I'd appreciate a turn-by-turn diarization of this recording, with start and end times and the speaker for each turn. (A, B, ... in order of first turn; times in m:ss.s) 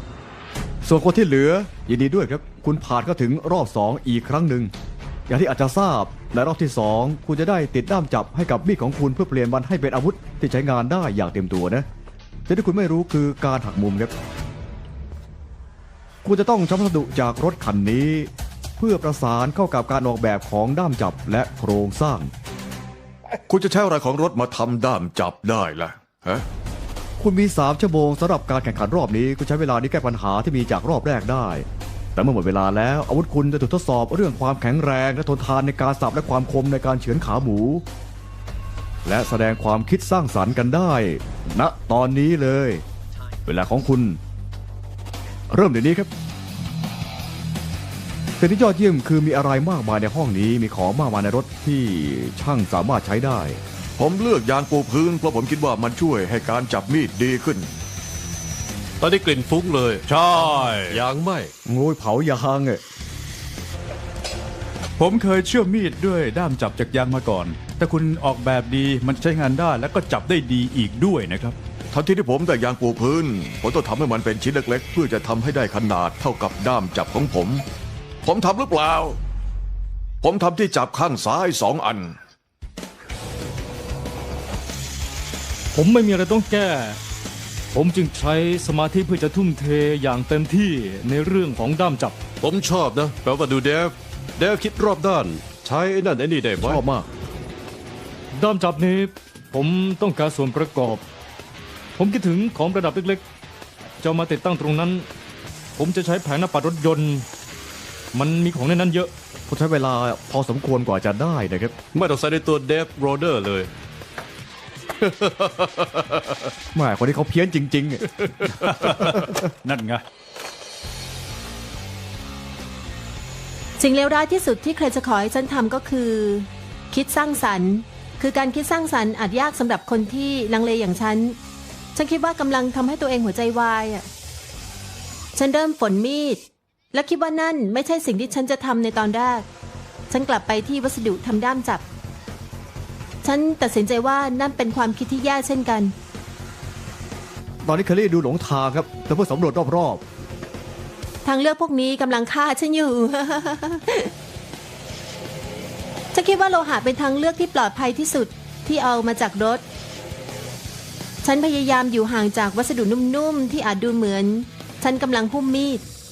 0:00.8-0:04.7 A
0:05.3-0:11.8 A
0:12.5-0:14.1 A
0:16.2-0:22.3 A
0:23.5-0:26.4 B
0:27.2-0:31.6 A
0:32.2-0:37.8 A
0:39.0-0:42.8 A
0:43.4-0:44.2 A
0:45.5-0:46.1 A
0:48.4-0:53.6 A
0:54.0-0:57.7 B
0:59.0-1:01.5 C
1:00.1-1:01.0 D
1:01.6-1:02.8 A
1:05.0-1:11.6 D
1:11.9-1:17.6 B
1:18.2-1:19.2 B
1:20.2-1:22.2 B
1:25.7-1:27.0 E
1:27.7-1:32.2 E
1:32.4-1:36.8 C
1:36.6-1:37.1 A
1:38.3-1:41.0 E
1:42.0-1:43.2 E
1:44.0-1:45.1 E
1:45.8-1:47.2 E
1:48.1-1:49.1 E
1:49.5-1:51.7 A
1:51.9-1:53.7 C
1:55.0-1:56.5 C
1:56.7-1:58.1 A
1:58.6-2:00.0 D
2:03.8-2:11.4 F
2:11.9-2:14.1 F
2:15.3-2:19.4 F
2:20.1-2:21.8 F
2:23.2-2:25.9 F
2:27.6-2:30.0 A
2:31.2-2:34.1 F
2:36.1-2:39.6 F
2:41.2-2:45.8 F